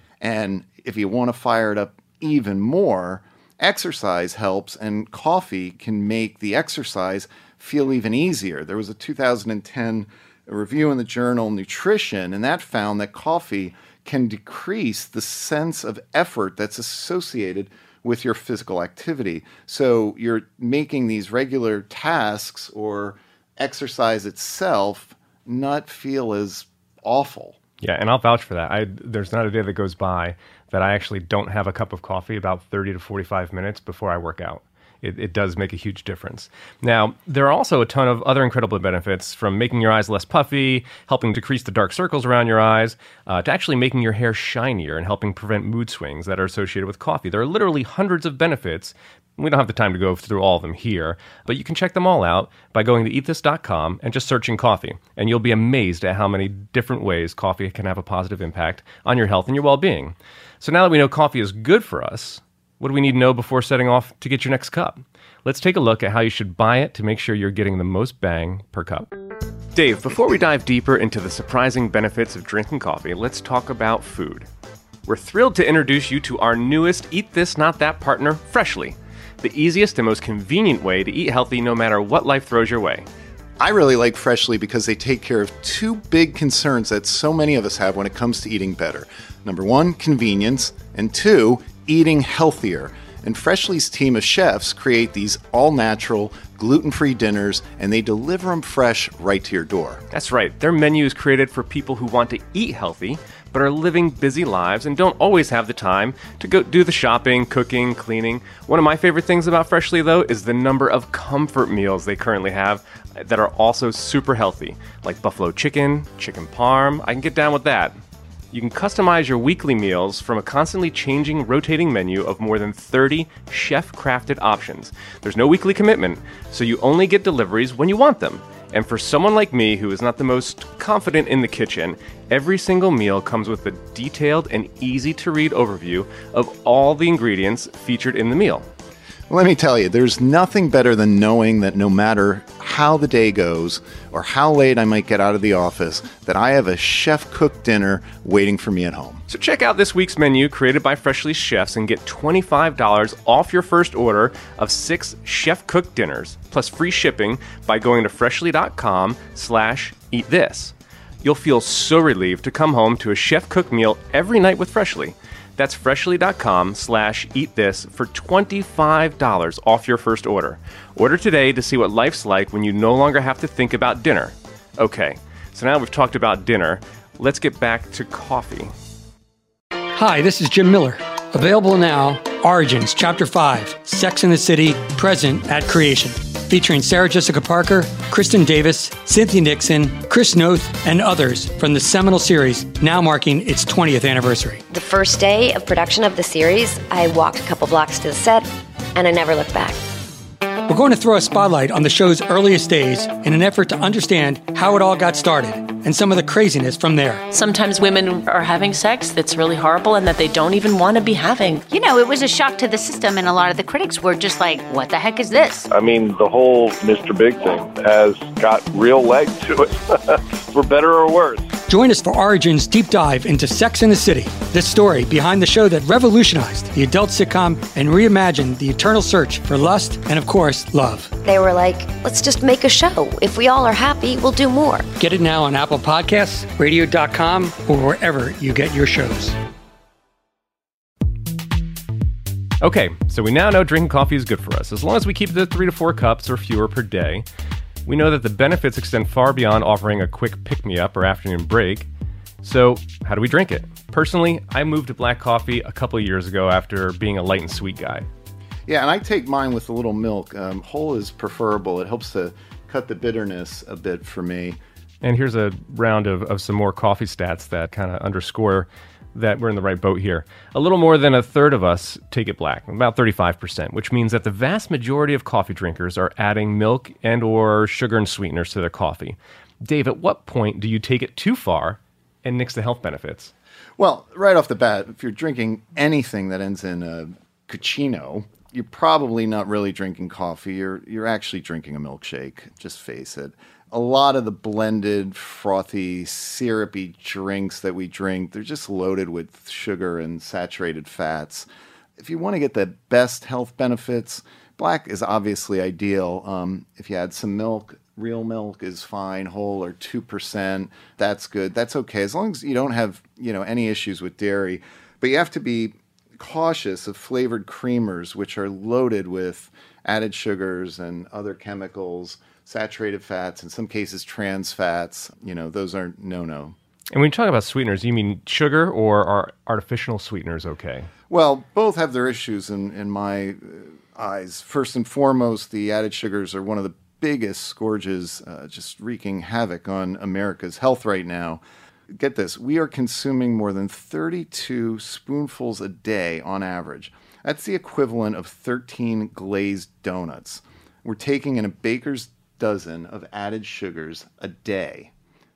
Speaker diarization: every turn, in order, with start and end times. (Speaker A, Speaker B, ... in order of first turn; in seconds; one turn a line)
Speaker A: 0.2-27.6
Speaker B: 27.8-69.1
Speaker B: 69.7-74.5
Speaker B: 75.1-83.1
Speaker A: 83.6-100.0
Speaker B: 100.1-118.0
Speaker B: 118.5-138.7
Speaker A: 139.3-149.2
Speaker B: 149.3-178.7
Speaker C: 179.9-194.6
Speaker D: 194.7-199.8
Speaker C: 200.7-207.3
Speaker E: 207.3-211.7
Speaker F: 211.7-215.7
Speaker G: 215.7-221.5
Speaker C: 221.7-231.1
Speaker D: 231.2-234.9
Speaker C: 235.0-239.4
Speaker B: 242.6-247.3
Speaker B: 247.9-251.9
Speaker B: 252.4-258.1
Speaker A: 258.7-264.6
Speaker B: 265.0-283.3
Speaker A: 283.8-301.5
Speaker A: 302.0-326.6
Speaker B: 326.9-330.9
Speaker A: 331.1-354.9